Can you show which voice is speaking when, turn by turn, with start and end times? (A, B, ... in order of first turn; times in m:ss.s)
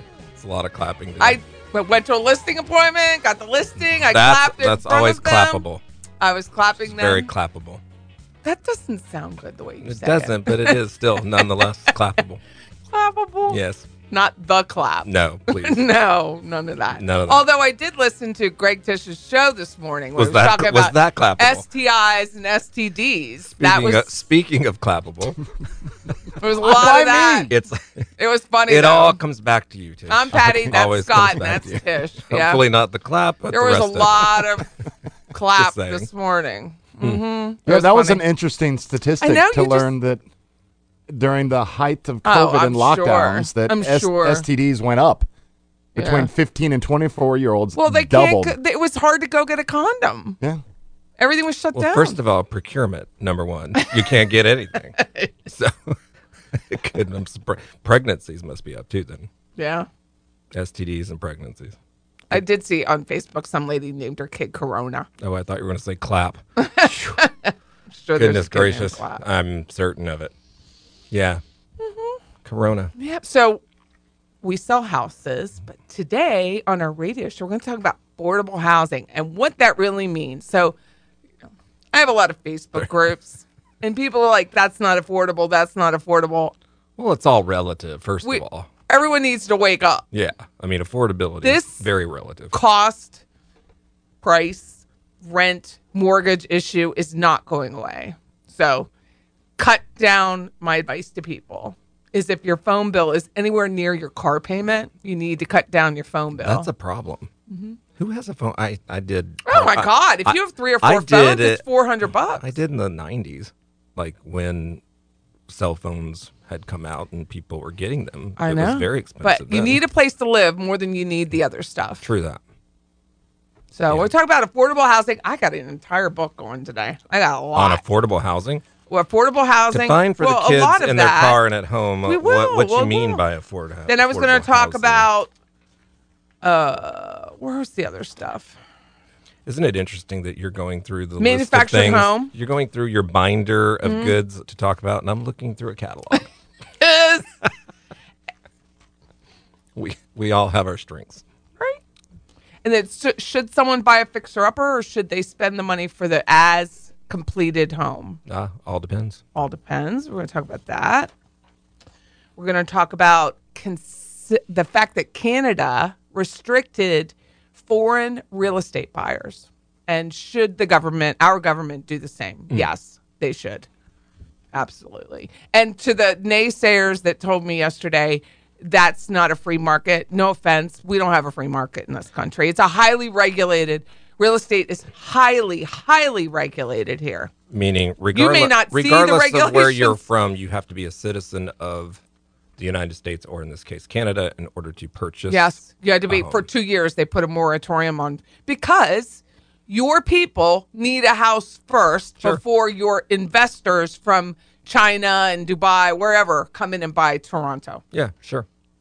0:00.4-0:01.4 A
0:01.2-0:05.6 B
0:04.1-0:05.8 A
0:06.2-0:07.3 B
0:06.8-0:07.8 A
0:08.4-0:10.8 B
0:09.8-0:12.4 A
0:11.3-0:11.6 B
0:12.9-0:24.1 B
0:13.5-0:13.9 A
0:15.0-0:15.9 A
0:17.0-0:17.4 A
0:20.2-0:21.6 A
0:23.5-0:25.4 A
0:26.4-0:27.5 B
0:26.6-0:27.5 C
0:27.5-0:28.0 A
0:28.2-0:29.2 B
0:28.7-0:34.6 A
0:30.1-0:32.6 B
0:33.5-0:34.7 B
0:35.3-0:38.2 B
0:35.6-0:36.1 A
0:37.7-0:40.2 C
0:39.2-0:39.9 B
0:41.1-0:45.3 C
0:42.2-0:44.5 B
0:46.0-0:48.6 C
0:46.0-0:46.3 B
0:47.8-0:50.4 B
0:51.2-0:52.2 B
0:51.7-0:56.0 A
0:55.0-0:55.3 B
0:56.5-0:59.3 A
0:59.6-0:59.9 B
1:00.5-1:01.8 A
1:02.3-1:05.1 B
1:05.2-1:07.2 A
1:06.6-1:09.2 B
1:08.2-1:10.3 A
1:11.1-1:11.4 A
1:11.8-1:12.2 B
1:12.4-1:12.9 A
1:13.0-1:13.6 B
1:14.4-1:20.8 B
1:21.9-1:26.6 B
1:27.0-1:28.7 A
1:28.2-1:30.0 B
1:30.1-1:32.6 A
1:31.4-1:31.8 B
1:32.5-1:33.2 B
1:34.2-1:38.9 B
1:39.6-1:46.7 B
1:46.4-1:47.3 A
1:47.5-1:47.8 B
1:48.0-1:54.8 A
1:49.5-1:52.4 B
1:55.5-1:59.8 A
1:58.4-2:02.0 B
2:02.0-2:02.4 A
2:03.7-2:07.8 B
2:07.6-2:08.6 A
2:08.9-2:11.4 B
2:09.7-2:15.1 A
2:12.0-2:13.2 B
2:13.9-2:15.3 B
2:16.4-2:18.6 B
2:19.5-2:26.2 A
2:21.2-2:22.3 B
2:23.8-2:24.2 B
2:26.8-2:27.3 B
2:29.8-2:31.2 A
2:32.6-2:38.2 B
2:38.3-2:39.2 A
2:39.4-2:41.1 B
2:42.4-2:53.7 B
2:54.5-3:07.3 B
3:07.5-3:12.0 A
3:08.1-3:10.0 B
3:12.6-3:16.4 A
3:15.3-3:27.8 B
3:27.9-3:28.5 A